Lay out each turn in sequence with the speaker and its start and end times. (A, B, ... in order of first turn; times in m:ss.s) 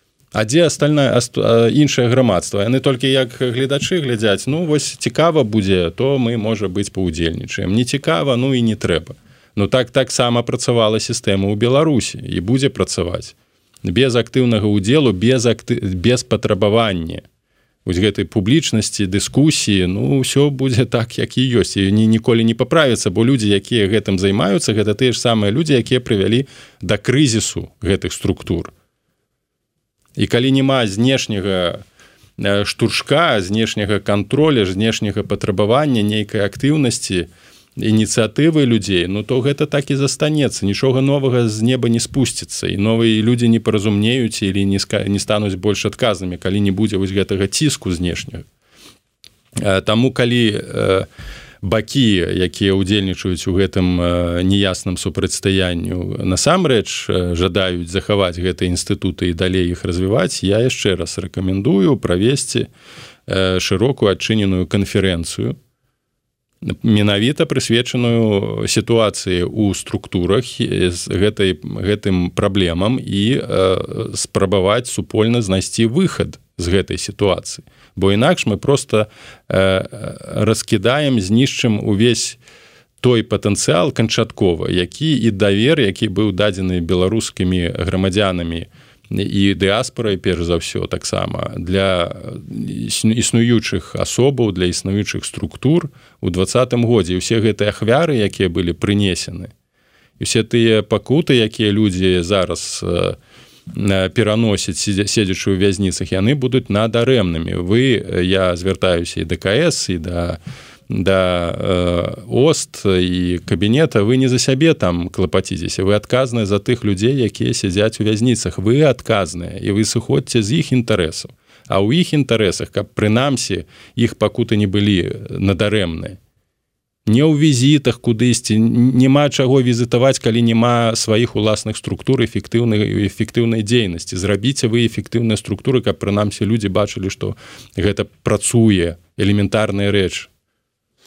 0:00.3-0:17.2 A
0:17.8-0:28.7 A
0:30.2-0:31.8 A
0:32.4-0:48.4 A
0:49.6-0:51.1 A
0:51.6-1:02.7 A
1:03.3-1:05.6 A
1:06.6-1:22.4 A
1:23.0-1:39.5 A
1:40.2-1:43.2 A
1:43.7-2:06.2 A
2:07.1-2:20.3 A